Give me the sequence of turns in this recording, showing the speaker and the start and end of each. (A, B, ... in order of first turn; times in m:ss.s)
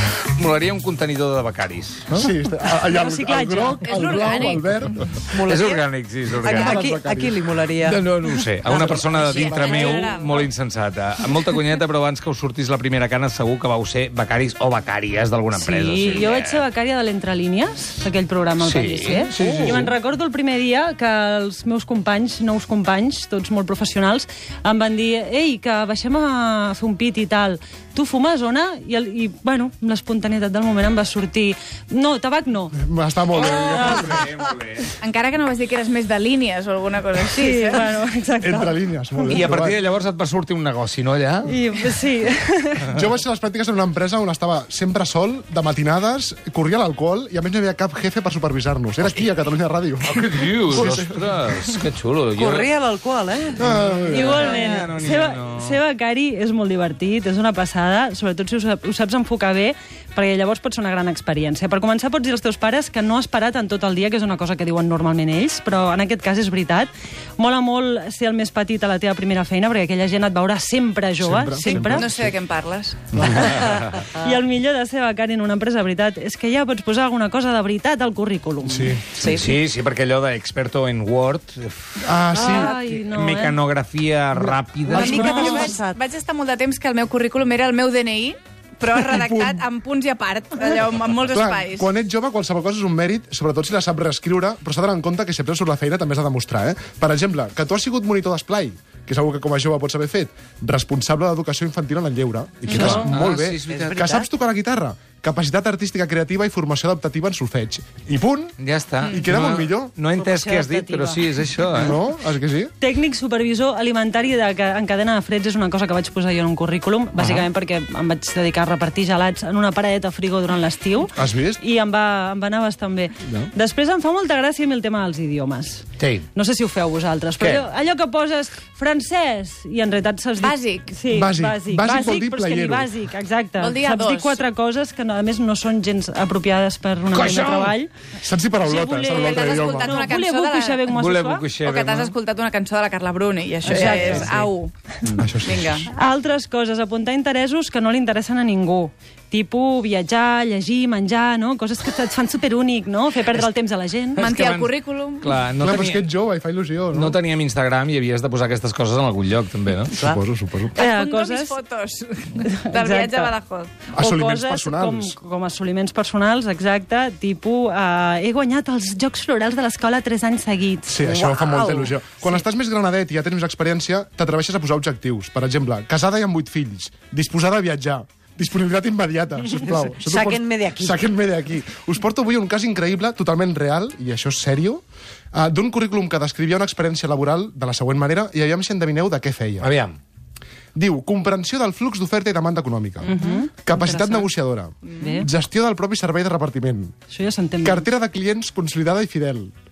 0:00.3-0:02.2 A
0:02.1-0:05.2 B
0:02.9-0:04.3 C
0:03.8-0:05.2 D
0:05.3-0:05.8 E
0:05.3-0:06.9 A
0:06.4-0:08.0 E
0:06.4-0:07.3 B
0:07.8-0:16.6 A
0:08.8-0:10.5 D
0:15.6-0:32.8 C
0:18.6-0:19.9 A
0:19.4-0:19.8 B
0:32.7-0:34.3 B
0:33.3-0:34.9 A
0:33.7-0:34.2 C
0:35.0-0:38.0 D
0:37.4-0:39.3 C
0:38.4-0:39.8 B
0:39.3-0:41.6 A
0:41.5-0:42.9 C
0:42.9-0:51.3 B
0:50.0-0:52.7 A
0:52.3-0:53.6 E
0:53.6-0:54.5 B
0:53.6-0:55.8 A
0:54.1-1:12.0 C
1:11.2-1:12.4 B
1:11.6-1:13.0 D
1:13.1-1:13.6 B
1:13.4-1:19.0 C
1:18.6-1:19.1 B
1:19.2-1:19.4 E
1:19.2-1:25.6 A
1:22.0-1:22.7 B
1:22.3-1:23.6 C
1:24.3-1:25.3 B
1:24.9-1:26.0 E
1:24.9-1:25.8 C
1:25.5-1:31.9 D
1:29.1-1:29.6 B
1:31.3-1:48.5 B
1:42.7-1:43.1 C
1:42.7-1:44.0 A
1:43.7-1:44.2 E
1:48.6-1:52.0 A
1:49.0-1:49.9 B
1:50.1-1:51.3 C
1:51.7-1:52.7 B
1:52.8-2:17.9 C
1:57.2-1:57.4 A
2:01.2-2:01.6 B
2:03.2-2:03.5 B
2:06.0-2:06.2 A
2:07.4-2:07.6 A
2:10.4-2:10.9 D
2:11.1-2:12.9 B
2:13.6-2:14.4 D
2:17.1-2:17.7 A
2:18.2-2:20.0 B
2:18.6-2:21.4 C
2:19.0-2:20.9 D
2:20.9-2:22.1 A
2:21.6-2:24.7 D
2:23.6-2:24.3 C
2:25.2-2:25.7 B
2:25.4-2:25.9 D
2:25.9-2:34.2 C
2:34.2-2:36.0 A
2:34.2-2:35.4 D
2:35.6-2:37.2 B
2:36.9-2:40.0 A
2:39.9-2:40.8 B
2:40.7-2:44.0 D
2:40.8-2:41.6 C
2:42.4-2:43.3 C
2:44.0-2:45.2 B
2:44.0-2:51.0 C
2:50.9-3:04.8 B
2:51.0-2:51.9 E
3:00.0-3:01.0 E
3:05.3-3:09.7 B
3:09.6-3:10.0 A
3:10.7-3:16.9 B
3:13.0-3:14.3 C
3:15.0-3:15.3 C
3:17.1-3:17.8 C
3:17.6-3:19.5 B